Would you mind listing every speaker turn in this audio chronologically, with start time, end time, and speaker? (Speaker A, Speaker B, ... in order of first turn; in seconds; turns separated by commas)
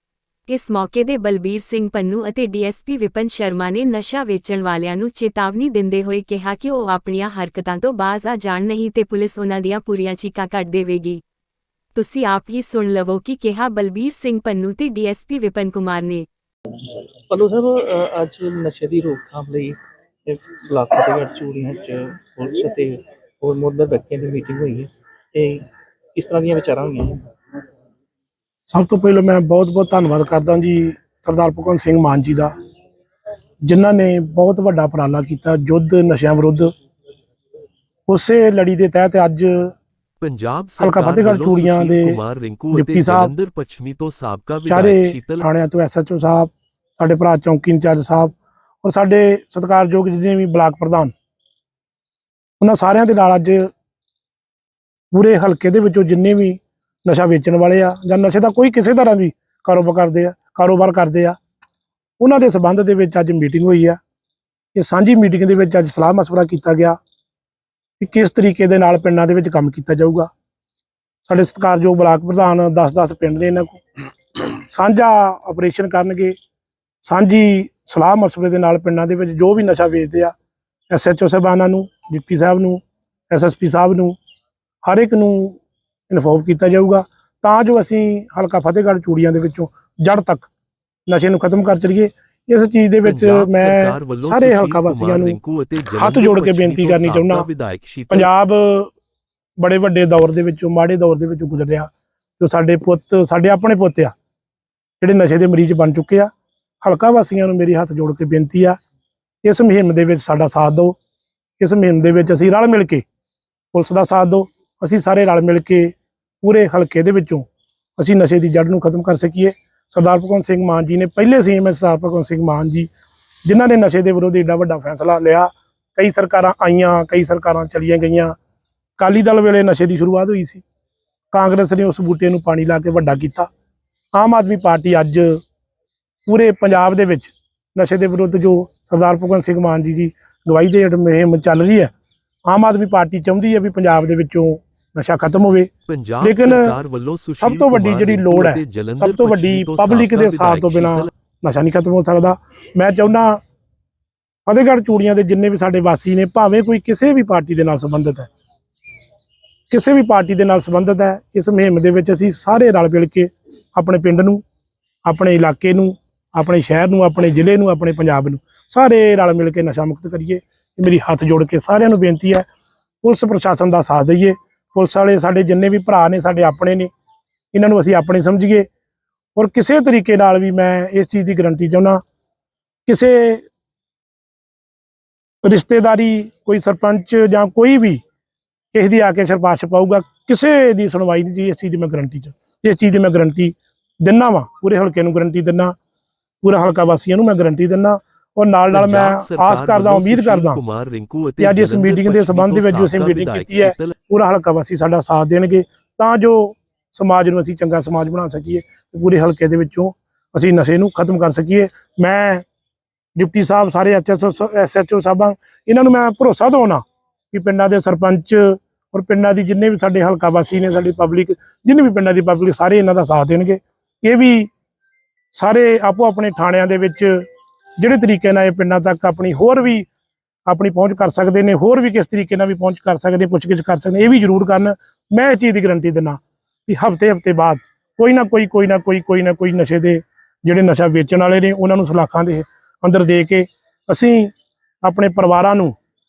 Speaker A: 0.5-11.2, Speaker A: 11.9-16.3, Speaker B: 16.8-27.2, Speaker C: 28.7-32.5, Speaker C: 33.7-36.7, Speaker C: 38.1-39.7, Speaker D: 40.2-45.5, Speaker C: 40.8-42.2, Speaker C: 42.7-43.3, Speaker C: 44.7-51.1, Speaker C: 52.6-53.7, Speaker C: 55.1-61.4, Speaker C: 62.2-64.0, Speaker C: 64.8-67.0, Speaker C: 68.0-70.3, Speaker C: 71.3-73.8, Speaker C: 74.7-76.3, Speaker C: 77.0-80.3, Speaker C: 80.9-84.2, Speaker C: 84.8-90.5, Speaker C: 91.1-95.4, Speaker D: 93.0-98.3, Speaker C: 95.9-97.5, Speaker C: 98.1-98.9, Speaker C: 99.6-104.1, Speaker C: 105.0-108.8, Speaker C: 109.4-111.0, Speaker C: 111.6-113.0, Speaker C: 113.7-117.5, Speaker C: 118.0-122.9, Speaker C: 123.5-128.3, Speaker C: 129.0-130.6, Speaker C: 131.3-133.5, Speaker C: 134.1-135.4, Speaker C: 136.3-141.9, Speaker C: 142.5-146.8, Speaker D: 145.9-151.1, Speaker C: 147.4-153.4, Speaker C: 154.5-158.3, Speaker C: 159.7-164.4, Speaker C: 165.1-172.5, Speaker C: 173.0-176.9, Speaker C: 177.5-178.7, Speaker C: 179.4-182.0, Speaker C: 182.9-183.4, Speaker C: 185.4-188.0, Speaker C: 188.7-195.8, Speaker C: 196.4-200.6, Speaker D: 198.7-203.9, Speaker C: 201.4-212.4, Speaker C: 213.2-224.5, Speaker C: 225.3-227.3, Speaker C: 227.8-229.9, Speaker C: 230.5-245.8